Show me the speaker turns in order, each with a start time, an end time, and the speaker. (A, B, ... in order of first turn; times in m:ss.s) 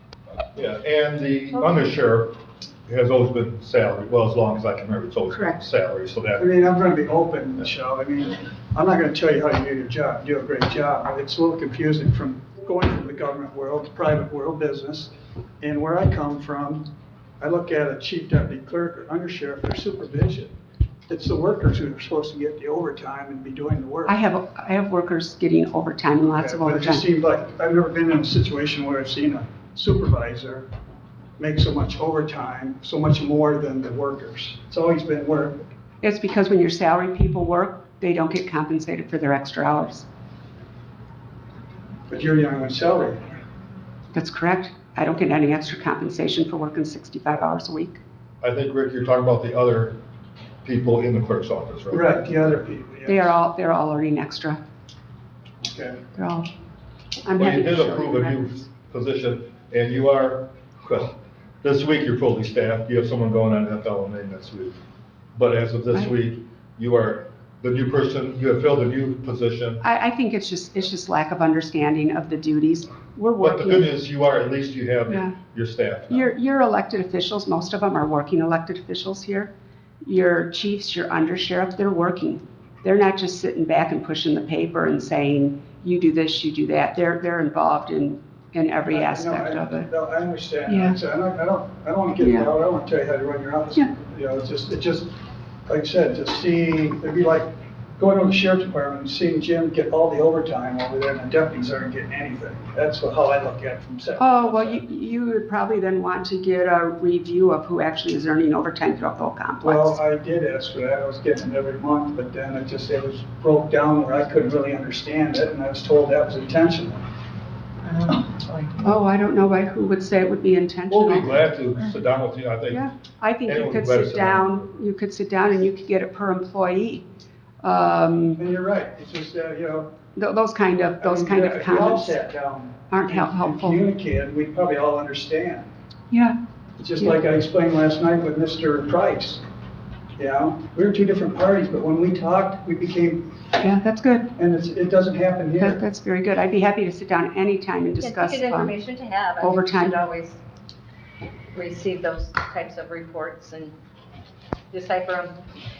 0:00.5-0:02.3 A
0:02.9-0:06.4 A
0:05.3-0:05.6 B
0:06.4-0:16.9 C
0:17.4-0:20.5 C
0:21.1-0:24.2 C
0:24.0-0:27.0 B
0:26.4-0:30.6 C
0:31.4-0:35.6 C
0:36.0-0:40.0 B
0:42.1-0:43.2 C
0:44.1-0:48.0 B
0:48.4-0:50.0 A
0:50.6-0:52.1 A
0:51.9-0:53.3 C
0:53.0-0:54.6 B
0:55.6-0:56.0 C
0:56.1-0:56.5 B
0:57.2-0:58.7 B
0:57.4-1:04.8 A
1:05.3-1:09.8 A
1:09.8-1:13.9 B
1:13.4-1:16.3 A
1:15.1-1:15.3 B
1:16.1-1:19.5 B
1:20.0-1:29.9 B
1:28.9-1:35.1 C
1:30.6-1:31.0 B
1:32.2-1:32.5 B
1:35.7-1:44.8 C
1:44.2-1:50.0 B
1:49.6-1:57.0 C
1:57.9-1:58.8 D
1:58.8-2:01.5 B
2:00.9-2:02.9 A
2:02.7-2:07.0 B
2:03.4-2:04.6 A
2:07.6-2:08.4 B
2:08.3-2:09.9 C
2:10.1-2:12.2 B
2:11.0-2:15.7 C
2:12.9-2:13.8 B
2:16.1-2:16.4 B
2:16.8-2:19.4 C
2:20.2-2:23.3 C
2:23.6-2:24.3 B
2:24.4-2:25.8 C
2:25.6-2:28.7 B
2:28.0-2:30.4 D
2:29.4-2:30.0 B
2:31.5-2:33.8 D
2:34.7-2:35.4 D